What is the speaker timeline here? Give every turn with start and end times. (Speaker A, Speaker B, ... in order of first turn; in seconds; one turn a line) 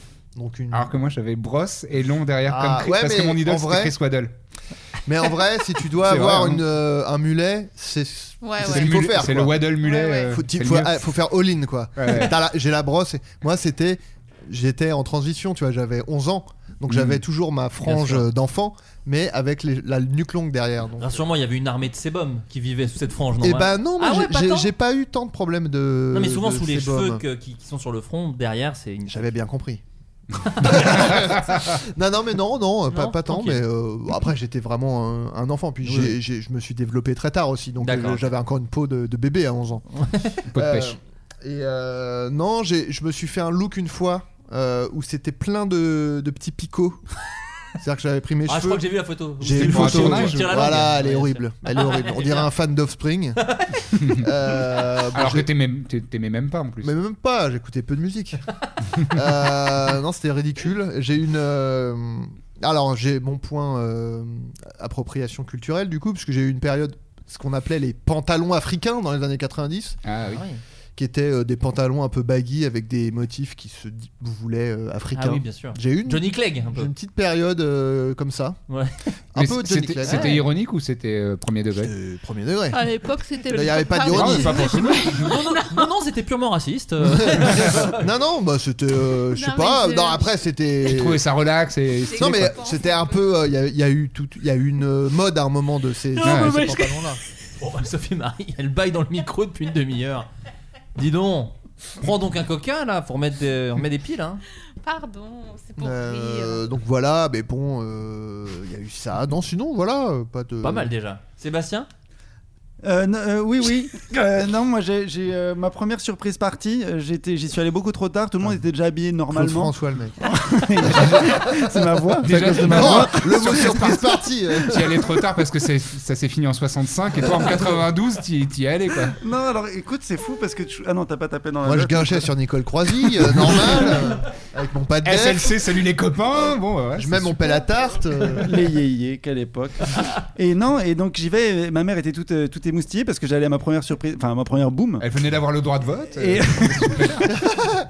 Speaker A: 0.3-0.9
Speaker B: 0.7-4.3
Speaker A: 2.5-3.9
Speaker A: 5.0-21.2
Speaker B: 6.0-6.6
Speaker C: 8.4-9.1
Speaker B: 8.6-11.1
Speaker C: 9.8-10.3
Speaker B: 11.9-12.3
Speaker B: 16.9-17.2
Speaker D: 17.8-18.3
Speaker D: 21.0-24.7
Speaker A: 23.4-27.2
Speaker D: 26.1-29.4
Speaker A: 29.1-29.8
Speaker D: 30.4-31.2
Speaker A: 30.6-39.8
Speaker D: 32.9-33.6
Speaker D: 35.8-36.2
Speaker D: 37.8-38.3
Speaker D: 40.0-40.4
Speaker B: 40.5-41.0
Speaker A: 40.5-47.1
Speaker A: 47.8-48.8
Speaker D: 48.5-52.5
Speaker A: 49.4-53.5
Speaker B: 49.5-50.9
Speaker D: 53.4-53.8
Speaker B: 54.0-54.3
Speaker A: 54.1-55.5
Speaker B: 55.1-57.0
Speaker A: 56.8-58.4
Speaker A: 59.0-70.0
Speaker B: 70.0-70.4
Speaker D: 70.3-70.6
Speaker A: 71.0-78.6
Speaker D: 75.1-76.9
Speaker D: 78.7-79.1
Speaker A: 79.3-80.4
Speaker B: 79.3-81.9
Speaker D: 80.0-80.4
Speaker A: 81.8-82.8
Speaker C: 82.7-85.8
Speaker A: 83.5-84.7
Speaker B: 84.0-85.3
Speaker D: 85.1-88.1
Speaker A: 87.0-91.2
Speaker C: 89.3-90.3
Speaker B: 90.8-92.6
Speaker C: 92.0-93.2
Speaker A: 92.2-97.2
Speaker D: 96.1-100.3
Speaker B: 96.2-96.7
Speaker D: 101.0-104.4
Speaker C: 104.8-106.6
Speaker A: 105.8-110.9
Speaker D: 110.6-111.9
Speaker E: 112.8-124.0
Speaker A: 119.3-125.2
Speaker B: 122.2-129.2
Speaker A: 127.3-127.6
Speaker E: 129.2-132.3
Speaker A: 131.6-135.7
Speaker E: 133.0-133.9
Speaker B: 135.0-137.6
Speaker A: 136.9-138.7
Speaker E: 138.3-145.1
Speaker B: 145.0-147.4
Speaker E: 146.1-147.2